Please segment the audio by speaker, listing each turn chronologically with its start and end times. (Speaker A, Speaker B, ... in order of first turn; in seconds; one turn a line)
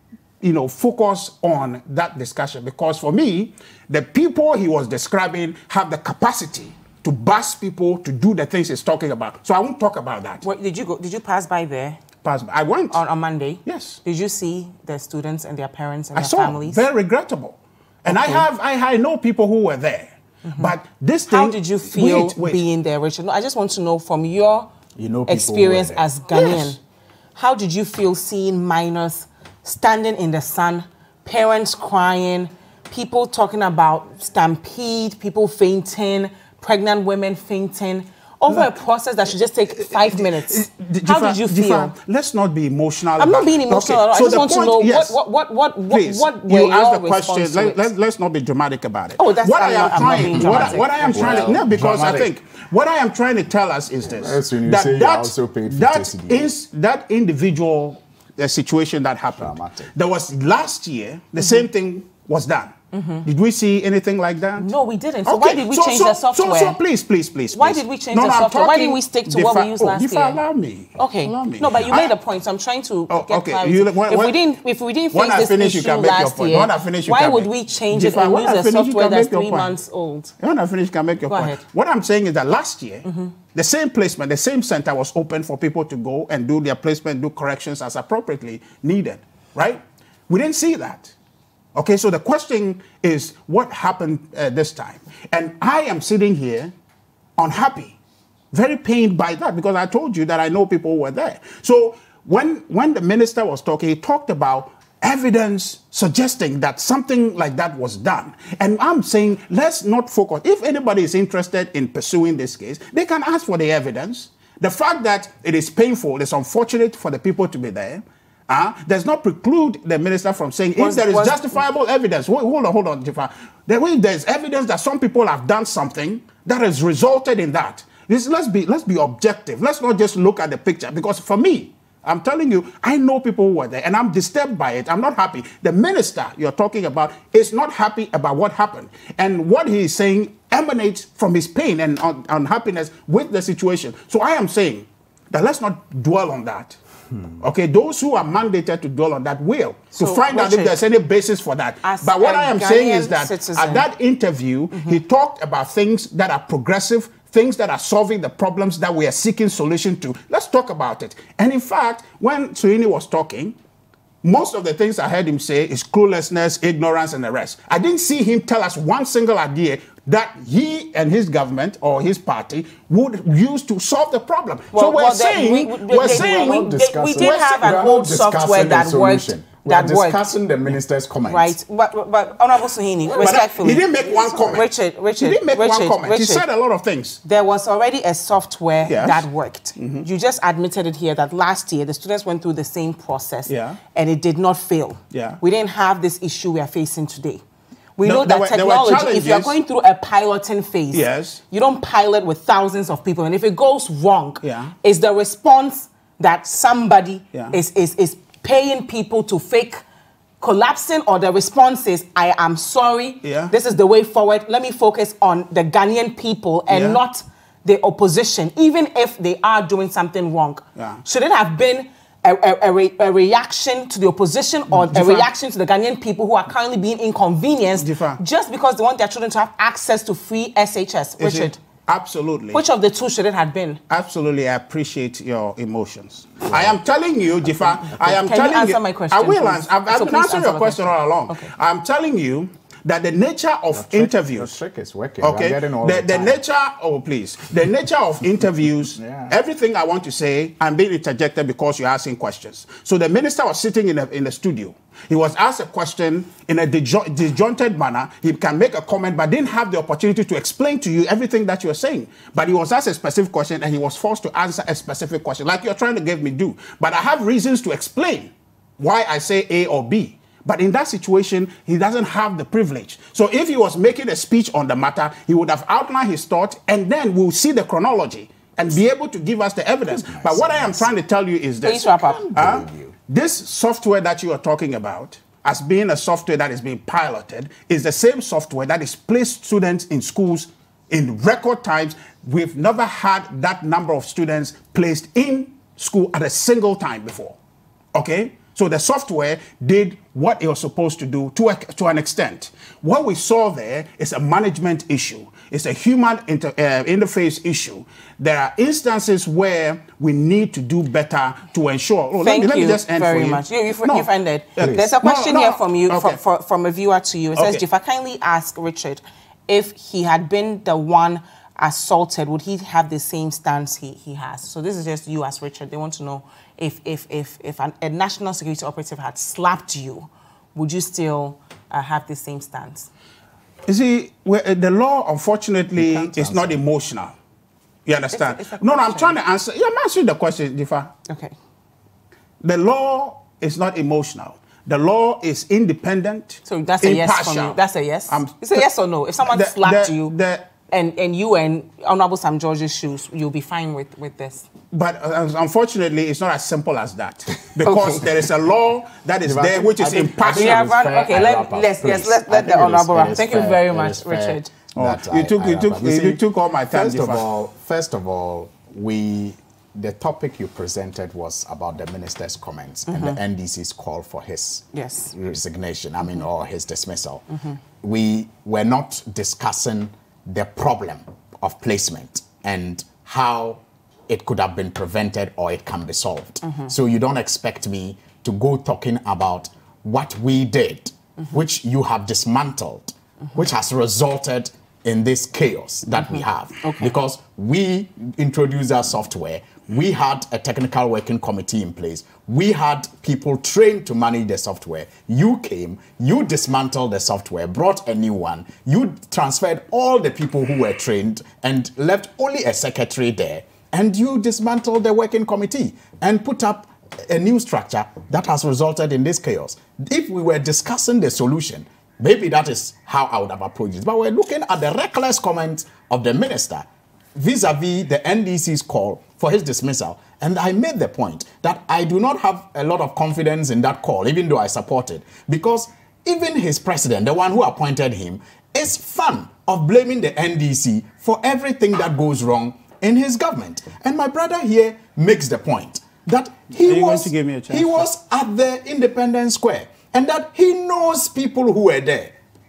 Speaker A: 0.4-10.4
Speaker B: 10.4-12.0
Speaker A: 12.2-13.0
Speaker B: 12.9-16.8
Speaker A: 13.7-14.0
Speaker A: 16.1-22.6
Speaker B: 18.1-18.4
Speaker B: 20.5-20.7
Speaker B: 21.3-24.7
Speaker C: 25.0-26.1
Speaker B: 25.3-26.8
Speaker A: 26.3-26.8
Speaker B: 27.4-41.9
Speaker A: 39.8-45.2
Speaker B: 43.2-47.9
Speaker A: 45.9-64.7
Speaker B: 49.2-51.5
Speaker C: 50.0-52.3
Speaker C: 54.0-56.5
Speaker C: 59.4-59.9
Speaker B: 62.9-63.3
Speaker B: 64.6-66.8
Speaker A: 65.3-72.1
Speaker B: 67.5-70.4
Speaker B: 71.0-80.3
Speaker A: 73.1-74.4
Speaker A: 75.1-79.7
Speaker A: 80.4-91.1
Speaker B: 81.3-81.6
Speaker B: 83.0-83.3
Speaker A: 91.8-96.7
Speaker A: 97.4-98.0
Speaker A: 98.5-146.8
Speaker B: 120.8-121.4
Speaker A: 147.4-163.6
Speaker B: 149.9-150.8
Speaker B: 151.8-153.9
Speaker B: 154.7-155.0
Speaker A: 164.2-177.9
Speaker B: 174.7-180.4
Speaker C: 176.0-181.6
Speaker B: 181.3-186.4
Speaker A: 183.1-187.2
Speaker B: 187.2-197.4
Speaker A: 188.9-189.3
Speaker A: 189.8-190.1
Speaker A: 193.5-193.8
Speaker A: 195.1-195.4
Speaker B: 198.0-209.8
Speaker A: 198.0-199.6
Speaker A: 200.9-201.4
Speaker A: 204.4-204.7
Speaker B: 210.4-231.6
Speaker A: 213.2-213.5
Speaker A: 216.7-217.0
Speaker A: 220.8-221.0
Speaker A: 224.7-225.3
Speaker A: 227.8-228.2
Speaker A: 231.2-232.6
Speaker B: 232.5-233.8
Speaker A: 233.9-244.5
Speaker C: 236.5-236.8
Speaker B: 238.0-241.5
Speaker C: 243.7-246.4
Speaker A: 245.2-297.4
Speaker C: 249.0-249.3
Speaker C: 279.9-280.9
Speaker B: 281.6-282.2
Speaker C: 282.0-282.9
Speaker A: 297.9-316.2
Speaker B: 312.2-332.9
Speaker C: 314.6-314.9
Speaker A: 317.4-317.6
Speaker A: 333.7-337.2
Speaker C: 335.8-336.6
Speaker A: 337.9-340.9
Speaker B: 338.1-339.2
Speaker B: 341.1-341.4
Speaker A: 342.4-348.7
Speaker B: 346.5-350.1
Speaker A: 349.2-350.5
Speaker B: 350.7-354.5
Speaker A: 354.7-360.7
Speaker B: 357.6-358.1
Speaker C: 359.2-377.3
Speaker B: 360.3-364.5
Speaker A: 364.8-367.2
Speaker B: 372.9-373.2
Speaker B: 374.7-375.1
Speaker C: 377.8-452.2
Speaker B: 396.0-396.9
Speaker A: 446.6-447.9